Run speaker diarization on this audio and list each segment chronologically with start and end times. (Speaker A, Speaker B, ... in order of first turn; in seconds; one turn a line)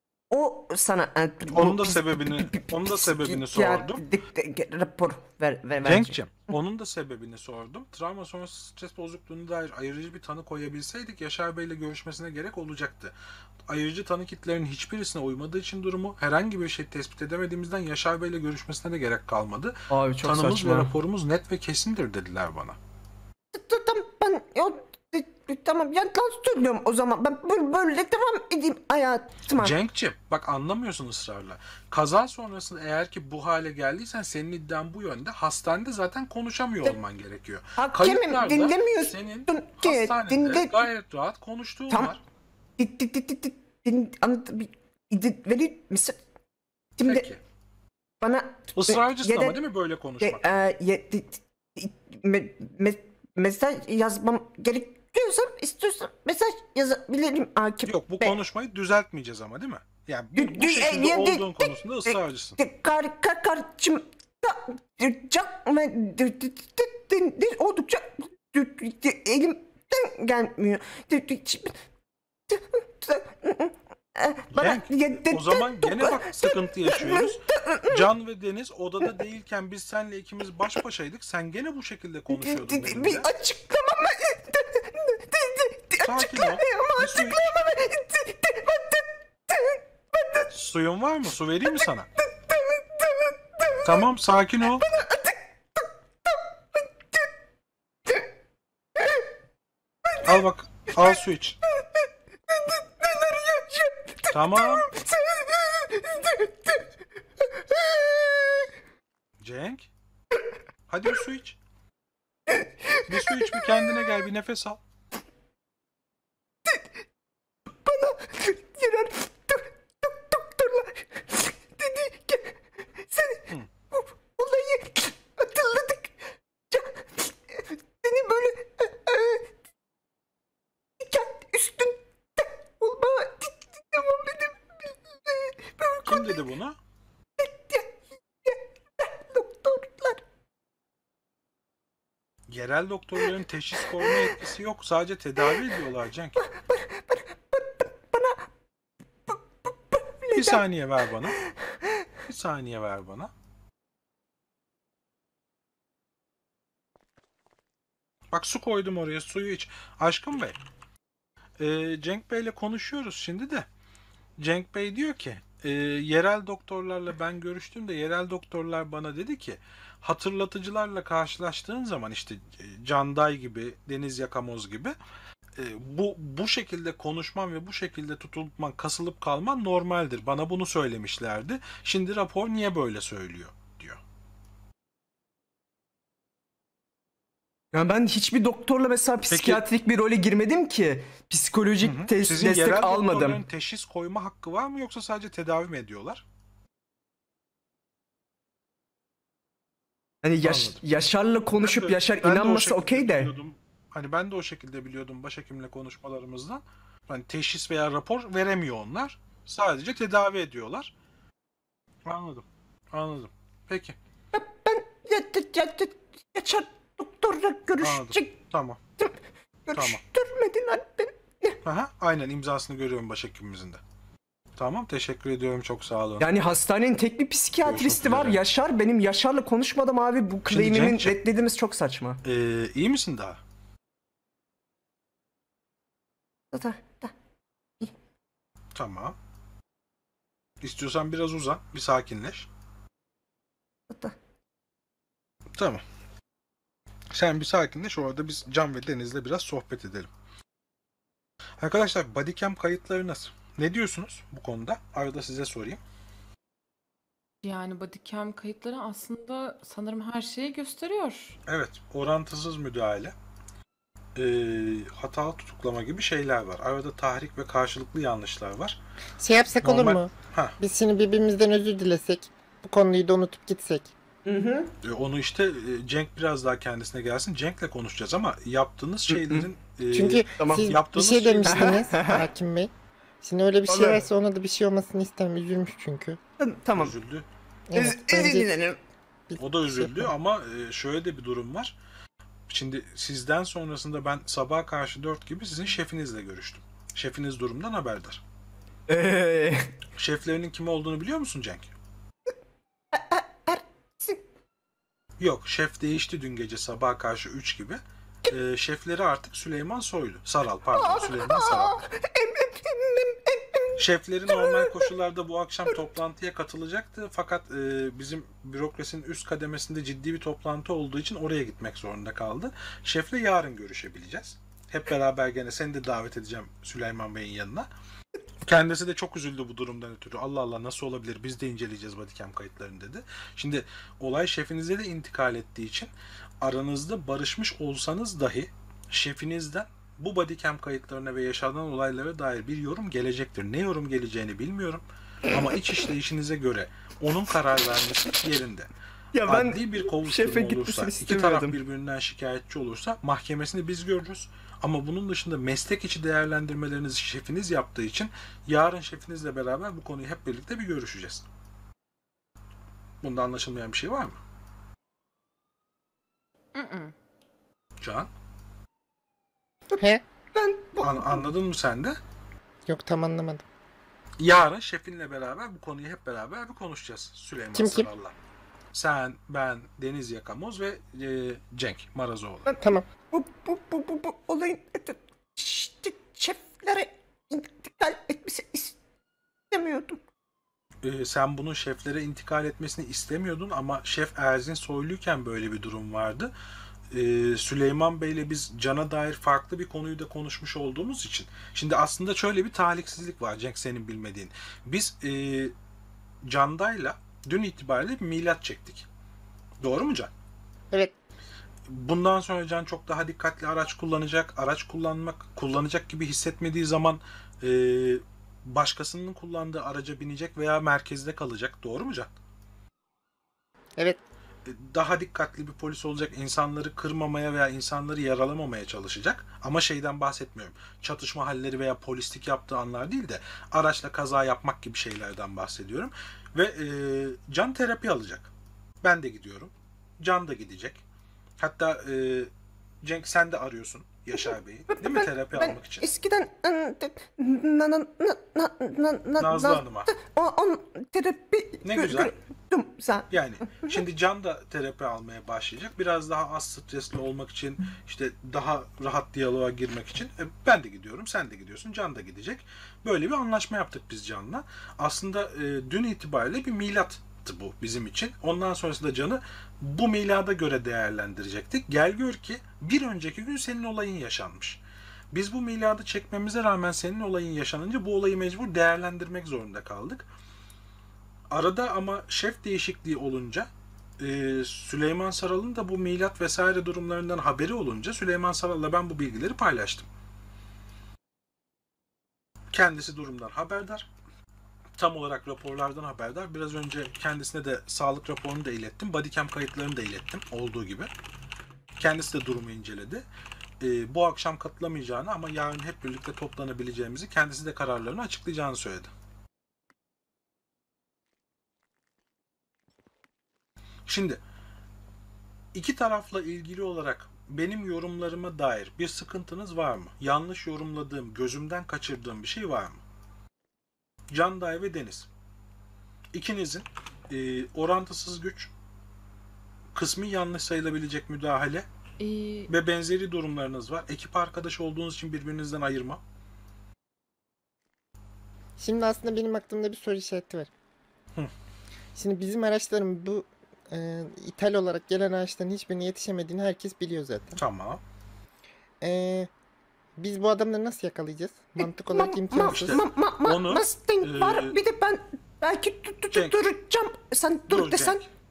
Speaker A: 0.3-6.2
Speaker B: 1.5-4.0
Speaker B: 5.8-13.1
Speaker B: 13.7-22.8
Speaker C: 19.9-20.9
Speaker A: 23.5-29.7
Speaker B: 29.6-42.2
Speaker A: 37.8-40.9
Speaker A: 42.8-46.2
Speaker A: 47.0-47.3
Speaker B: 47.0-47.4
Speaker A: 48.2-49.6
Speaker B: 48.7-50.6
Speaker A: 50.2-58.4
Speaker B: 57.9-62.6
Speaker A: 60.4-71.8
Speaker A: 72.5-78.0
Speaker B: 74.5-83.3
Speaker A: 82.3-90.5
Speaker B: 86.0-87.5
Speaker B: 90.5-92.1
Speaker A: 92.2-94.0
Speaker B: 93.8-94.8
Speaker A: 94.6-97.3
Speaker B: 100.2-101.6
Speaker A: 101.7-106.9
Speaker B: 104.3-104.9
Speaker A: 107.4-108.7
Speaker B: 109.4-109.9
Speaker B: 110.9-111.6
Speaker A: 112.5-114.0
Speaker B: 113.1-114.8
Speaker A: 117.7-129.5
Speaker A: 131.0-136.4
Speaker B: 136.1-136.8
Speaker A: 137.4-140.2
Speaker B: 142.5-146.4
Speaker A: 143.8-144.4
Speaker A: 145.4-145.7
Speaker A: 146.4-148.5
Speaker A: 149.3-150.6
Speaker B: 150.3-151.4
Speaker A: 151.4-152.1
Speaker B: 152.3-153.3
Speaker B: 158.3-160.6
Speaker B: 161.6-163.7
Speaker B: 164.4-174.9
Speaker B: 175.6-184.0
Speaker C: 187.7-193.4
Speaker B: 189.3-189.6
Speaker B: 191.8-196.2
Speaker C: 200.2-203.3
Speaker B: 200.4-200.8
Speaker B: 201.6-210.9
Speaker B: 212.1-213.9
Speaker A: 214.3-218.4
Speaker B: 217.8-218.8
Speaker A: 219.0-221.6
Speaker B: 219.7-220.0
Speaker B: 221.6-223.8
Speaker B: 224.6-226.3
Speaker C: 226.2-232.2
Speaker B: 227.6-228.4
Speaker B: 230.4-231.2
Speaker B: 232.2-233.4
Speaker A: 236.5-237.1
Speaker B: 238.7-239.2
Speaker B: 240.6-242.5
Speaker A: 243.9-244.2
Speaker B: 245.6-245.8
Speaker B: 247.1-250.1
Speaker B: 251.6-255.8
Speaker D: 257.4-261.4
Speaker B: 261.5-263.1
Speaker B: 264.1-268.8
Speaker E: 269.2-273.9
Speaker B: 269.6-270.6
Speaker C: 274.3-274.7
Speaker B: 274.8-281.9
Speaker C: 279.1-279.4
Speaker E: 279.9-286.2
Speaker C: 280.4-280.7
Speaker C: 281.5-282.2
Speaker C: 283.7-284.0
Speaker A: 286.4-286.9
Speaker B: 286.7-287.2
Speaker E: 287.7-288.5
Speaker A: 287.7-288.8
Speaker E: 289.3-290.1
Speaker B: 289.4-291.7
Speaker B: 292.5-298.2
Speaker C: 298.9-299.7
Speaker B: 299.9-301.7
Speaker A: 302.9-304.2
Speaker B: 305.2-311.8
Speaker A: 310.8-314.9
Speaker B: 313.8-327.7
Speaker B: 328.4-335.9
Speaker B: 336.4-348.7
Speaker C: 349.1-351.5
Speaker B: 349.2-361.2
Speaker B: 363.0-364.2
Speaker D: 366.5-366.9
Speaker B: 367.8-368.1
Speaker A: 370.3-371.2
Speaker B: 370.8-372.0
Speaker E: 372.7-373.4
Speaker B: 374.2-378.1
Speaker E: 377.5-377.9
Speaker B: 378.7-382.5
Speaker E: 382.6-382.8
Speaker A: 383.1-388.8
Speaker A: 389.5-390.0
Speaker B: 390.8-396.3
Speaker B: 396.9-405.5
Speaker B: 406.2-408.9
Speaker B: 409.6-410.1
Speaker B: 411.7-422.1
Speaker B: 424.4-438.3
Speaker B: 438.8-440.8
Speaker B: 441.4-442.3
Speaker B: 442.8-445.8
Speaker A: 444.2-453.8
Speaker B: 449.2-449.9
Speaker B: 451.6-452.1
Speaker B: 453.1-474.6
Speaker B: 475.1-480.1
Speaker B: 481.3-483.5
Speaker B: 484.0-489.9
Speaker B: 492.5-493.9
Speaker B: 494.8-500.9
Speaker B: 501.8-503.0
Speaker B: 503.6-508.9
Speaker B: 513.9-514.2
Speaker B: 515.5-522.8
Speaker B: 524.1-525.1
Speaker B: 526.1-528.5
Speaker B: 529.7-531.6
Speaker D: 532.0-532.5
Speaker B: 532.5-536.0
Speaker E: 538.6-540.5
Speaker E: 542.0-547.4
Speaker B: 547.4-547.8
Speaker E: 548.8-549.3
Speaker E: 550.0-552.8
Speaker A: 551.6-558.0
Speaker B: 552.4-554.6
Speaker B: 556.1-556.5
Speaker B: 557.5-558.1